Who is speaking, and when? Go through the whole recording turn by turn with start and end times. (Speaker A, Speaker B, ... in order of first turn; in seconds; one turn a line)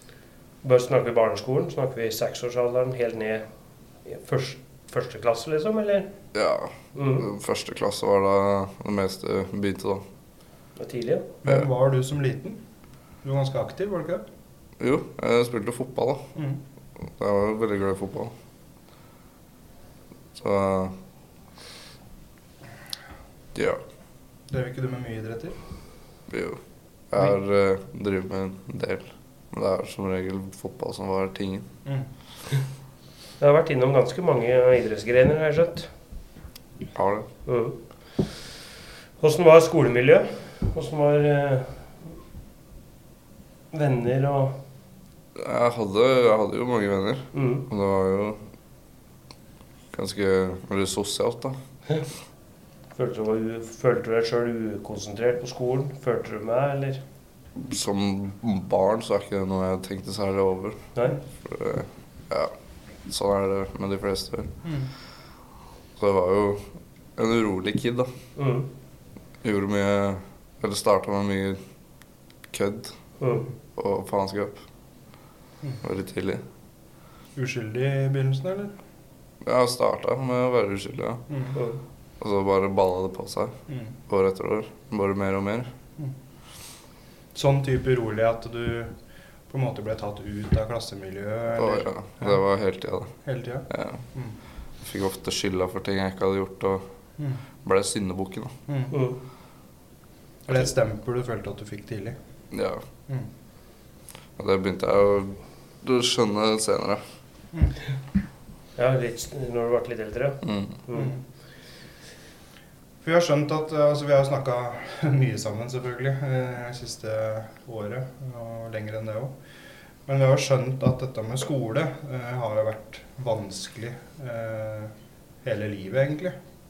Speaker A: 0.6-6.1
Speaker B: 6.3-10.0
Speaker A: 6.9-7.3
Speaker A: 10.8-11.3
Speaker C: 11.4-12.6
Speaker C: 13.2-14.2
Speaker B: 14.8-16.3
Speaker C: 16.3-16.6
Speaker B: 17.0-18.3
Speaker B: 20.3-20.9
Speaker B: 23.5-23.8
Speaker C: 24.5-25.6
Speaker B: 26.3-31.7
Speaker A: 33.4-35.9
Speaker B: 36.9-37.3
Speaker A: 37.5-38.4
Speaker A: 39.2-42.0
Speaker A: 43.7-44.6
Speaker B: 45.3-48.4
Speaker A: 47.3-47.6
Speaker B: 49.9-51.6
Speaker A: 52.9-57.0
Speaker B: 57.5-64.5
Speaker C: 64.6-64.9
Speaker B: 66.0-68.1
Speaker A: 68.3-68.7
Speaker B: 69.4-71.6
Speaker B: 72.5-73.0
Speaker A: 73.2-73.5
Speaker B: 73.8-74.6
Speaker B: 75.8-76.4
Speaker C: 77.3-78.7
Speaker B: 79.4-81.3
Speaker C: 81.3-81.5
Speaker A: 81.5-81.8
Speaker B: 82.2-85.7
Speaker C: 83.7-83.9
Speaker C: 87.3-88.9
Speaker C: 89.5-92.4
Speaker B: 91.6-94.0
Speaker C: 93.2-94.4
Speaker B: 94.8-96.8
Speaker B: 97.6-98.5
Speaker C: 98.7-98.9
Speaker A: 98.9-99.2
Speaker C: 100.5-102.2
Speaker B: 102.5-102.8
Speaker B: 104.4-107.0
Speaker C: 107.5-107.8
Speaker A: 108.8-111.1
Speaker B: 110.4-110.8
Speaker C: 113.0-119.3
Speaker C: 120.0-124.9
Speaker C: 125.4-126.3